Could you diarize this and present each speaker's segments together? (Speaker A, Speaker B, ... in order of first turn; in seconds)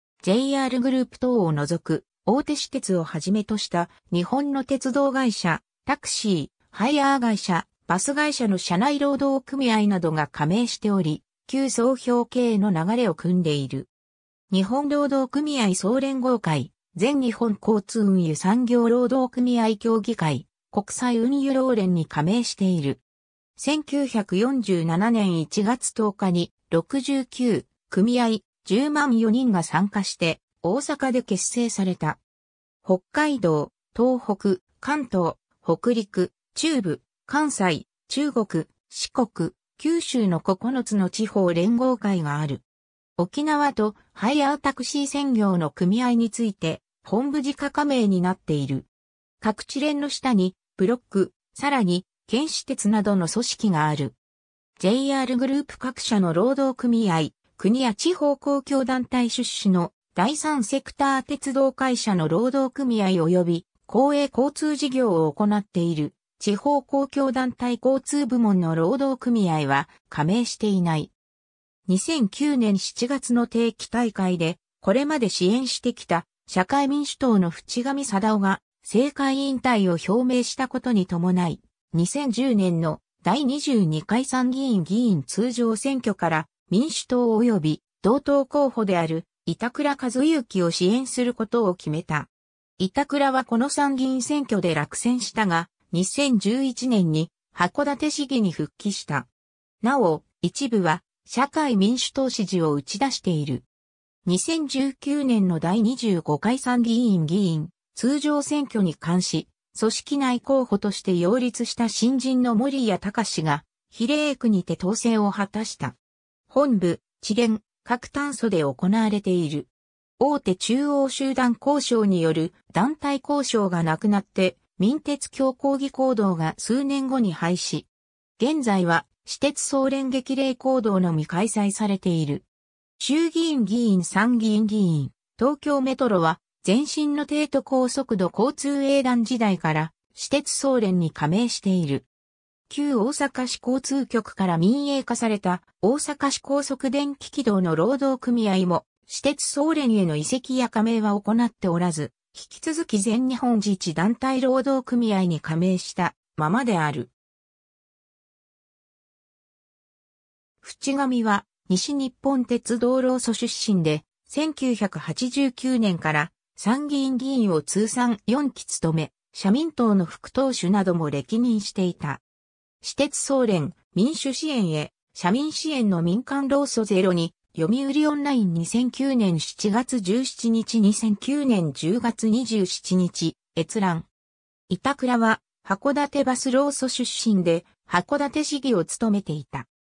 Speaker A: 0.2-13.9, 14.5-23.0, 23.6-32.2, 32.8-42.6, 43.2-48.9, 49.4-54.1, 54.8-71.1, 71.9-99.3, 99.8-103.7, 104.2-116.0, 116.5-132.4, 133.0-142.1, 142.7-157.1, 160.6-172.2, 172.8-184.1, 184.7-189.7